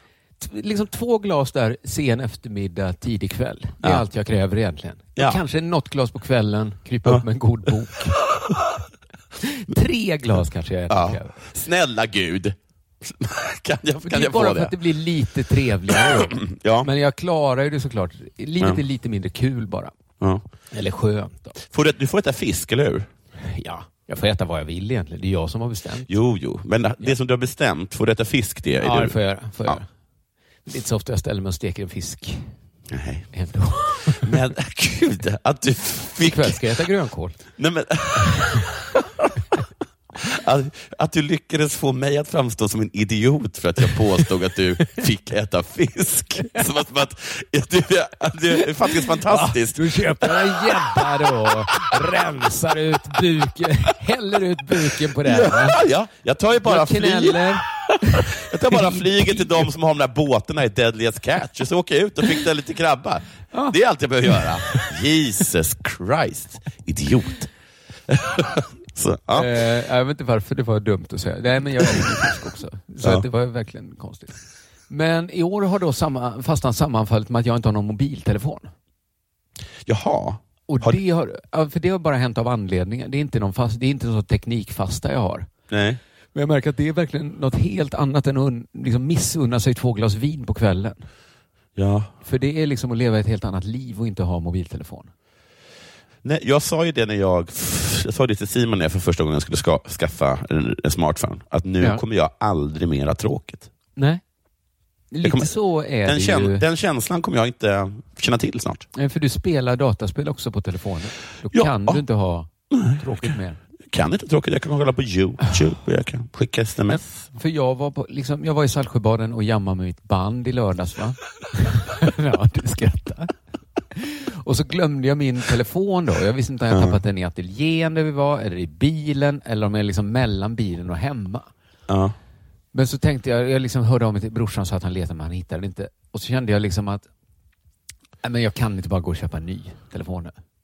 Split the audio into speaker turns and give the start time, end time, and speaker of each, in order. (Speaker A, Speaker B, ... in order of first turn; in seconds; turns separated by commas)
Speaker A: 0.4-8.2, Speaker A: 9.4-11.4, Speaker B: 10.9-14.8, Speaker A: 14.0-19.9, Speaker B: 16.1-16.9, Speaker A: 20.7-21.6, Speaker B: 21.7-23.1, Speaker A: 23.4-26.1, Speaker B: 26.1-29.1, Speaker A: 28.8-29.9, Speaker A: 30.7-32.5, Speaker B: 32.9-33.3, Speaker A: 33.3-34.3, Speaker B: 34.2-36.6, Speaker A: 36.2-37.4, Speaker B: 37.6-38.7, Speaker B: 40.1-51.0, Speaker A: 48.6-55.8, Speaker B: 55.0-57.5, Speaker A: 56.6-59.7, Speaker B: 58.4-67.5, Speaker B: 68.1-69.5, Speaker A: 69.3-74.4, Speaker A: 74.9-78.7, Speaker B: 79.9-81.0, Speaker A: 80.7-85.5, Speaker B: 85.7-86.0, Speaker A: 86.3-91.0, Speaker B: 91.8-92.1, Speaker A: 92.2-95.1, Speaker B: 96.2-103.7, Speaker A: 104.0-104.2, Speaker A: 105.1-106.7, Speaker B: 105.2-108.9, Speaker A: 109.0-113.6, Speaker B: 111.5-112.0, Speaker B: 112.7-113.3, Speaker B: 113.9-117.3, Speaker A: 117.3-123.3, Speaker A: 124.0-131.5, Speaker B: 126.7-127.0, Speaker B: 131.9-132.2, Speaker A: 132.7-137.1, Speaker A: 138.2-140.3